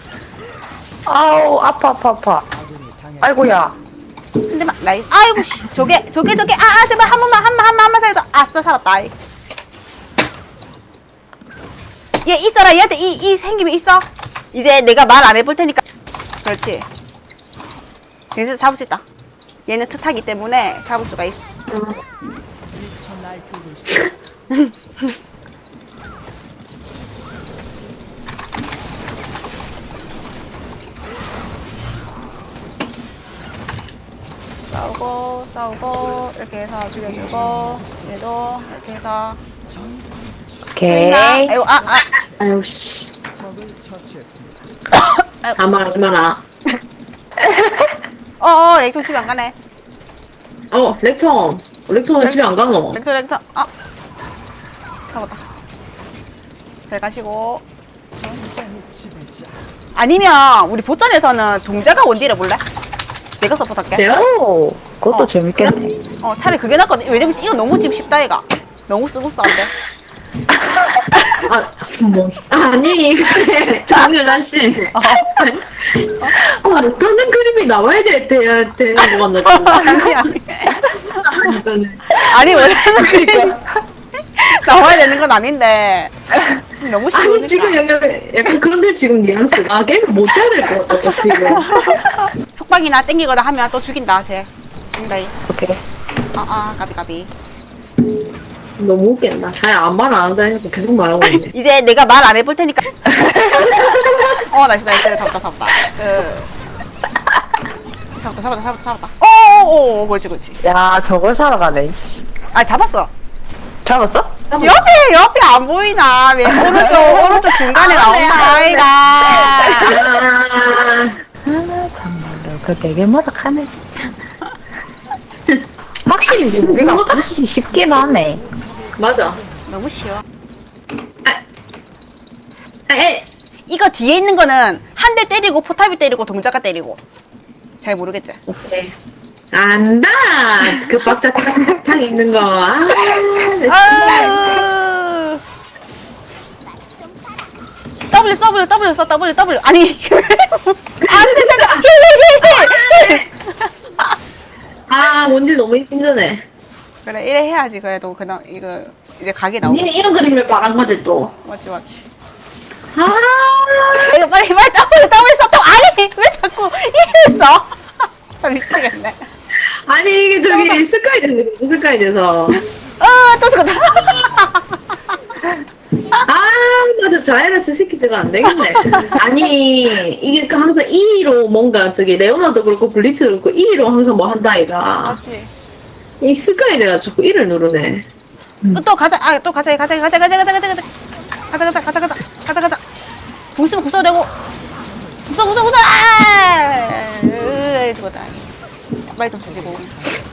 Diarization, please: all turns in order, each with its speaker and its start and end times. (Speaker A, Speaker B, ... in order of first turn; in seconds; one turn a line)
Speaker A: 1.1-2.5
Speaker A: 3.2-3.8
Speaker B: 4.5-9.1
Speaker B: 12.2-15.8
Speaker B: 16.4-16.9
Speaker B: 18.3-19.0
Speaker B: 19.7-21.4
Speaker C: 21.7-22.0
Speaker B: 24.5-25.1
Speaker B: 34.7-39.4
Speaker A: 40.7-41.5
Speaker B: 40.9-42.1
Speaker C: 42.3-43.1
Speaker C: 45.5-46.4
Speaker B: 48.4-49.5
Speaker C: 50.7-53.0
Speaker B: 52.2-53.7
Speaker B: 55.1-55.4
Speaker B: 56.9-57.6
Speaker B: 59.9-62.6
Speaker B: 63.4-64.0
Speaker C: 63.9-64.3
Speaker A: 64.1-66.0
Speaker B: 65.1-69.7
Speaker B: 71.1-71.4
Speaker C: 71.4-80.3
Speaker B: 74.9-75.5
Speaker B: 79.4-81.2
Speaker C: 80.8-82.2
Speaker B: 82.2-83.6
Speaker C: 83.0-83.4
Speaker A: 83.0-83.5
Speaker B: 84.3-87.8
Speaker C: 87.1-91.7
Speaker B: 91.3-95.3
Speaker A: 95.5-95.8
Speaker B: 96.3-97.3
Speaker C: 98.8-101.5
Speaker B: 101.2-103.8
Speaker C: 103.6-104.4
Speaker B: 104.4-106.5
Speaker B: 108.2-110.6
Speaker A: 110.6-112.2
Speaker B: 112.5-113.1
Speaker A: 113.8-114.3
Speaker C: 114.5-114.9
Speaker B: 114.6-120.0
Speaker A: 116.5-119.8
Speaker C: 119.8-121.2
Speaker A: 121.5-123.8
Speaker A: 126.0-128.4
Speaker C: 126.5-127.3
Speaker C: 129.0-129.4
Speaker B: 129.7-130.2
Speaker C: 132.9-133.2
Speaker B: 133.7-137.0
Speaker B: 137.8-138.4
Speaker C: 138.5-138.9
Speaker C: 139.5-144.7
Speaker B: 143.7-145.4
Speaker B: 148.1-153.7
Speaker C: 151.0-151.9
Speaker C: 152.4-153.2
Speaker C: 154.9-156.4
Speaker B: 157.0-159.9
Speaker C: 159.7-161.3
Speaker B: 161.4-162.0
Speaker C: 162.9-164.2
Speaker B: 164.1-167.8
Speaker B: 168.4-169.2
Speaker C: 169.6-172.6
Speaker B: 170.5-170.8
Speaker B: 172.5-175.0
Speaker C: 176.2-185.2
Speaker B: 178.6-179.1
Speaker B: 185.0-185.5
Speaker C: 186.2-188.1
Speaker B: 188.7-190.8
Speaker B: 191.5-192.8
Speaker B: 193.6-194.3
Speaker B: 195.2-198.4
Speaker B: 199.1-200.0